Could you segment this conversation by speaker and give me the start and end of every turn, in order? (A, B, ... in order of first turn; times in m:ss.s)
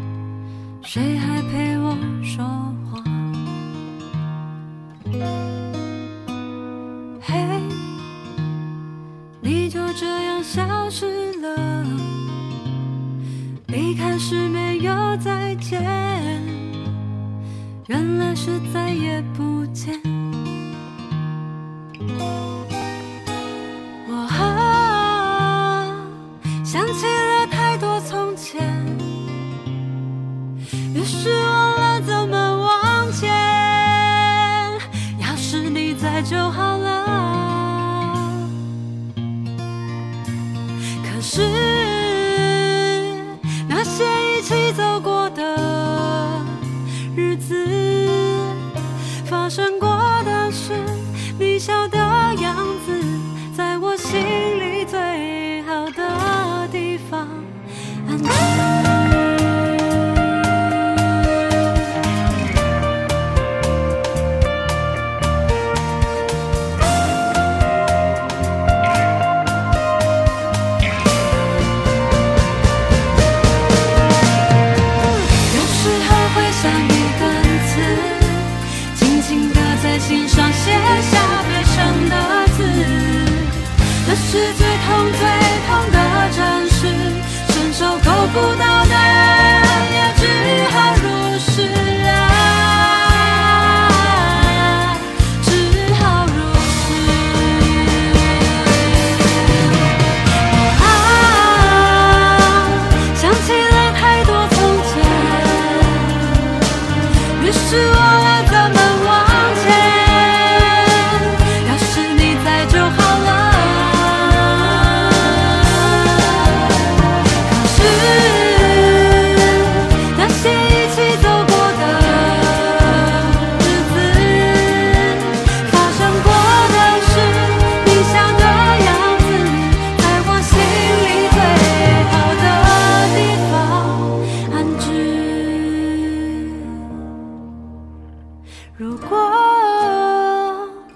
0:00.8-0:03.4 A
0:07.2-0:08.0 A
0:09.4-0:12.3 A
0:13.7-0:16.8 A
0:17.9-0:20.2 A
0:24.0-0:29.2 A
0:30.9-0:38.5 A
0:41.0-0:48.6 A
0:49.2-0:57.5 A
0:58.0-1:01.1 A
1:15.5-1:39.3 A
1:40.4-1:46.6 A
1:47.4-2:16.8 A
2:18.8-2:20.8 A